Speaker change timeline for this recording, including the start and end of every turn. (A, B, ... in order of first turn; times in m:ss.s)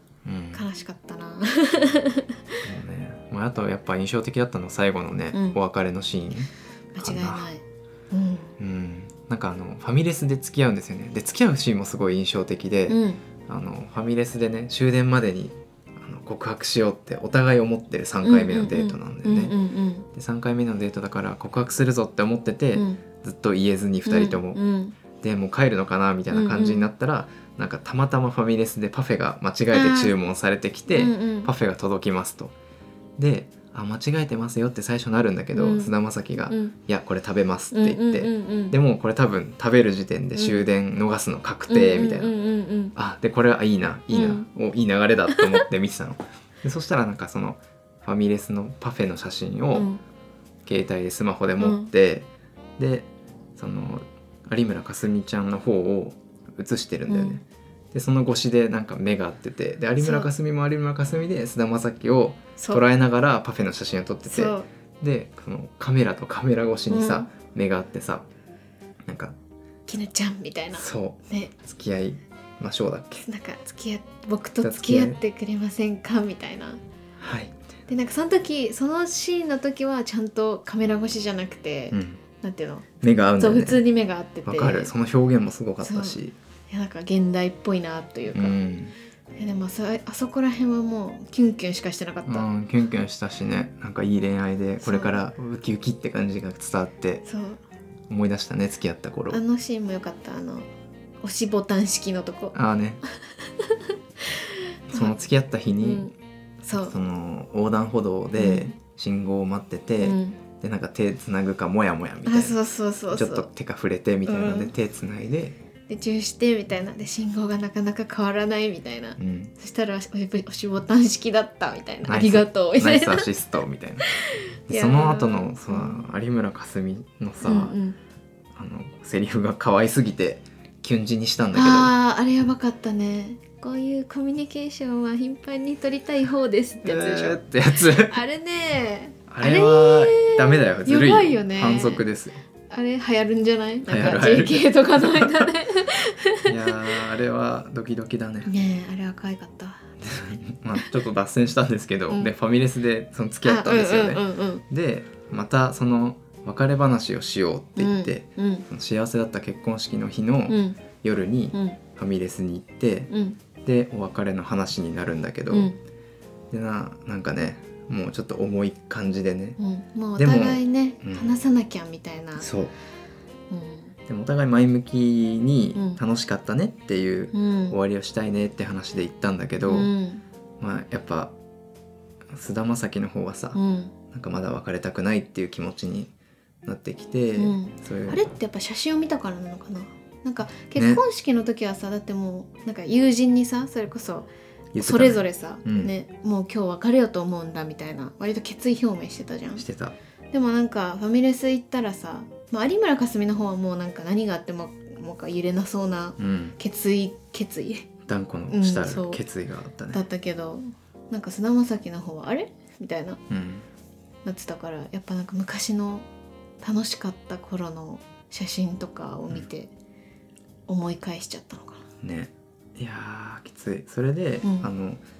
0:00.2-0:00.6 A
0:00.5-0:02.6 B
0:02.6-0:07.5 A
0:05.3-0:05.6 B
0:06.9-0:08.5 B
0:08.6-0:19.5 A
0:12.9-0:13.2 B
0:18.2-0:20.0 B
0:20.1-0:24.6 A
0:22.7-0:23.0 B
0:24.0-0:25.0 B
0:25.2-0:32.5 A
0:26.3-0:26.9 B
0:29.7-0:30.1 B
0:30.9-0:31.5 B
0:33.2-0:42.3 A
0:35.5-0:35.9 B
0:36.5-0:36.7 B
0:37.7-0:38.8 B
0:40.4-0:40.7 B
0:41.7-0:42.9 B
0:42.9-0:49.9 A
0:44.1-0:44.5 B
0:45.3-0:45.6 B
0:49.7-0:50.0 B
0:50.6-1:08.3 A
0:51.6-0:51.9 B
0:57.1-0:57.4 B
1:00.0-1:00.3 B
1:02.6-1:02.8 B
1:04.2-1:04.7 B
1:06.9-1:07.3 B
1:09.0-1:09.3 A
1:09.9-1:11.5 B
1:10.7-1:13.3 A
1:13.2-1:16.8 B
1:14.6-1:15.2 A
1:17.2-1:17.6 A
1:17.9-1:24.9 B
1:21.9-1:22.2 A
1:23.0-1:23.8 A
1:24.4-1:26.3 A
1:25.8-1:28.6 B
1:28.3-1:28.9 A
1:29.4-1:32.5 B
1:32.2-1:37.2 A
1:34.8-1:35.2 B
1:37.2-1:37.6 B
1:38.1-1:39.4 A
1:39.3-1:40.7 B
1:41.2-1:42.6 B
1:42.5-1:43.0 A
1:43.6-1:45.2 B
1:44.9-1:46.1 A
1:45.8-1:47.0 B
1:46.7-1:52.6 A
1:48.4-1:48.7 B
1:50.0-1:50.4 B
1:52.2-1:53.5 B
1:53.1-1:55.6 A
1:54.2-1:54.7 B
1:55.9-2:03.3 B
1:59.2-1:59.5 A
2:02.0-2:04.1 A
2:04.0-2:06.0 B
2:04.7-2:07.8 A
2:07.4-2:08.0 B
2:08.6-2:11.9 A
2:11.5-2:22.0 B
2:16.8-2:18.2 A
2:19.3-2:22.4 A
2:22.7-2:27.0 B
2:23.9-2:25.5 A
2:26.4-2:28.5 A
2:28.4-2:29.8 B
2:30.0-2:43.1 A
2:33.4-2:34.6 B
2:37.8-2:38.6 B
2:40.5-2:40.8 B
2:41.5-2:41.8 B
2:43.1-2:43.4 B
2:43.6-2:45.7 A
2:45.5-2:45.8 B
2:46.5-2:49.6 A
2:49.6-2:52.5 B
2:50.2-2:51.4 A
2:52.4-2:52.7 A
2:53.5-2:53.9 B
2:54.1-2:59.9 A
2:55.7-2:56.0 B
2:57.3-2:57.8 B
2:59.6-3:00.2 B
3:00.6-3:01.3 A
3:02.3-3:03.6 A
3:03.5-3:03.9 B
3:04.1-3:06.1 A
3:06.6-3:08.3 A
3:07.4-3:19.6 B
3:10.7-3:11.0 A
3:14.7-3:15.9 A
3:19.6-3:19.9 A
3:20.3-3:27.9 B
3:26.2-3:26.6 A
3:28.0-3:30.0 A
3:28.5-3:29.2 B
3:29.9-3:33.2 B
3:33.3-3:33.7 A
3:34.2-3:36.0 B
3:36.6-3:39.7 B
3:40.7-3:41.8 B
3:42.0-3:45.0 A
3:44.4-3:44.7 B